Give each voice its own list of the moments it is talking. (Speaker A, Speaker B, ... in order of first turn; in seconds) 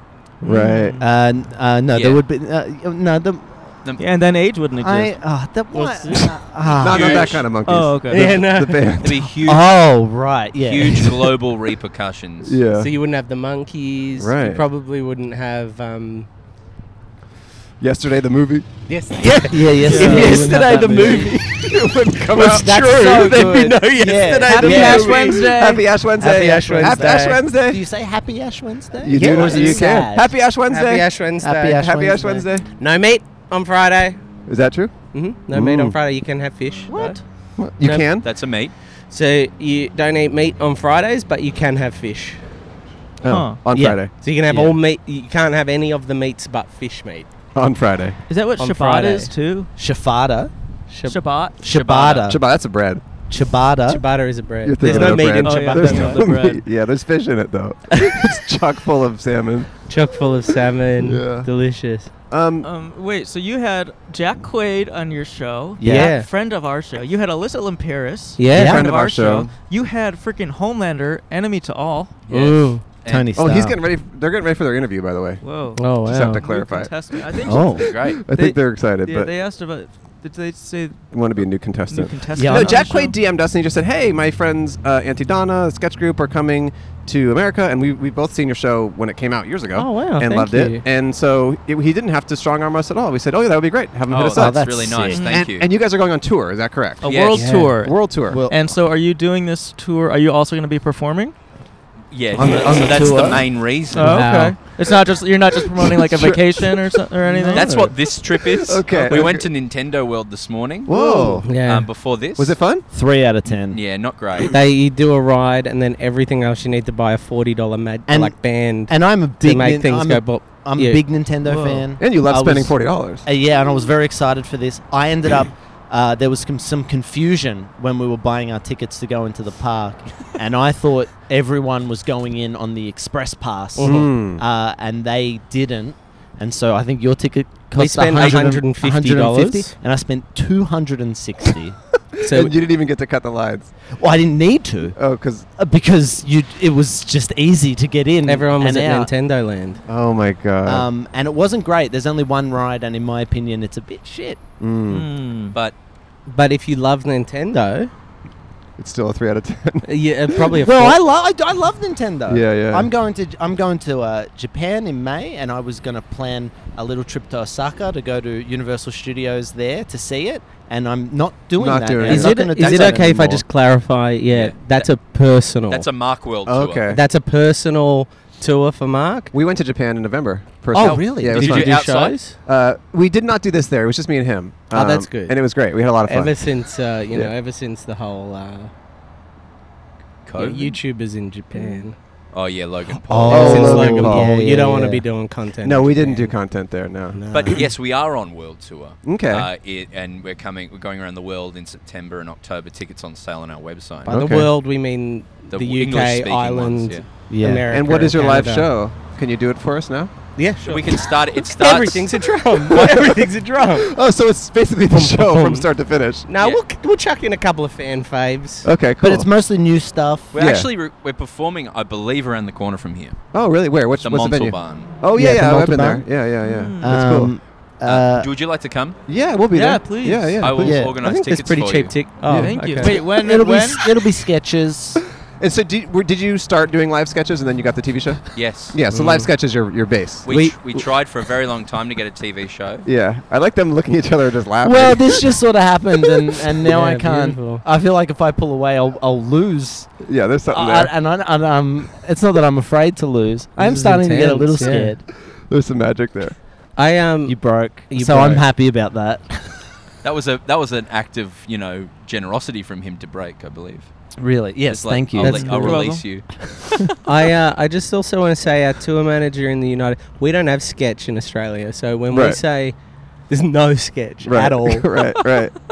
Speaker A: 0.4-1.0, 6.8-9.3, 12.4-12.9, 14.2-14.6, 17.8-18.7, 22.0-23.9, 24.4-27.8, 29.0-32.7, 34.5-36.0, 37.6-38.3, 43.2-44.1, 47.5-48.2, 52.3-53.0, 54.6-59.7, 61.0-61.5, 62.3-62.7, 68.5-69.5, 73.3-75.4, 76.0-79.3, 81.1-98.4, 102.3-103.5, 105.7-109.5, 110.8-111.5, 112.3-112.8, 122.0-123.2, 133.8-134.4, 142.2-143.7, 144.9-145.4, 149.9-150.9, 154.6-155.1, 158.8-159.9, 162.3-162.9, 171.6-173.1, 176.4-177.0, 179.3-186.4, 193.3-194.4, 195.6-197.2, 199.0-199.5, 204.1-204.5, 207.7-210.3, 212.7-216.2, 218.6-219.3, 220.3-220.7, 223.3-227.3, 229.1-230.8, 235.3-240.3, 242.8-245.3, 250.0-250.9, 255.3-256.4, 272.1-272.4, 274.2-275.6
Speaker B: 0.4-1.0, 4.0-5.1, 7.6-8.3, 19.8-21.2, 24.0-25.9, 43.2-43.6, 48.3-49.7, 51.0-51.5, 54.8-56.6, 62.6-72.1, 75.4-81.0, 81.9-83.1, 95.1-95.4, 97.0-101.3, 103.9-107.7, 121.4-121.8, 154.9-155.5, 226.4-227.0, 229.5-230.4, 232.3-233.8, 265.3-266.2
Speaker C: 0.5-3.7, 4.8-7.4, 9.4-11.3, 19.2-25.6, 26.2-30.3, 31.4-32.4, 36.9-37.2, 43.7-44.8, 49.8-50.5, 51.6-52.4, 53.3-54.1, 65.8-66.2, 68.5-68.8, 73.0-73.8, 77.5-77.9, 82.3-82.9, 94.3-95.2, 98.3-98.7, 102.4-103.4, 112.9-113.8, 118.1-141.8, 143.9-145.0, 145.6-149.1, 150.6-154.4, 160.5-173.4, 180.7-181.5, 193.1-195.1, 204.1-204.4, 207.3-207.8, 219.0-220.3, 225.1-226.1, 226.8-228.3, 230.6-231.0, 232.3-235.0, 244.6-250.0, 250.5-255.1, 257.2-259.6, 264.2-265.8
Speaker D: 1.9-2.2, 6.8-7.4, 9.0-9.7, 10.7-12.6, 38.2-38.7, 51.6-52.3, 72.3-73.3, 77.8-78.2, 94.1-95.7, 97.0-97.5, 102.1-104.2, 107.5-110.9, 111.5-112.8, 113.7-114.5, 138.1-138.6, 174.3-174.9, 175.7-176.9, 180.7-182.2, 190.2-190.8, 192.3-193.6, 197.3-204.1, 205.5-207.1, 210.6-212.3, 220.3-223.2, 224.0-225.0, 227.8-229.0, 230.4-232.0, 238.3-238.8, 240.2-242.8, 260.0-263.9, 264.7-266.7
Speaker E: 5.7-6.4, 8.1-9.0, 12.7-16.3, 18.9-21.1, 22.4-25.5, 26.7-27.4, 29.1-30.0, 30.6-34.2, 35.1-37.2, 37.8-38.1, 39.1-42.4, 44.1-47.3, 48.6-49.3, 50.9-51.2, 53.9-56.3, 59.9-62.1, 65.8-66.3, 68.4-68.8, 72.3-73.0, 75.8-76.4, 89.7-90.8, 104.0-104.6, 110.9-111.9, 114.5-121.2, 133.7-134.3, 137.7-139.8, 142.2-142.6, 148.2-149.8, 156.3-157.9, 159.8-161.0, 172.0-175.9, 176.9-179.3, 181.1-182.4, 184.7-185.4, 186.0-188.7, 190.4-191.9, 193.3-196.3, 197.1-197.7, 204.1-208.7, 210.3-213.9, 214.9-215.7, 216.2-218.7, 230.8-233.0, 238.9-239.3, 246.7-247.7, 253.6-255.0, 256.7-258.4, 267.0-272.8, 273.3-275.1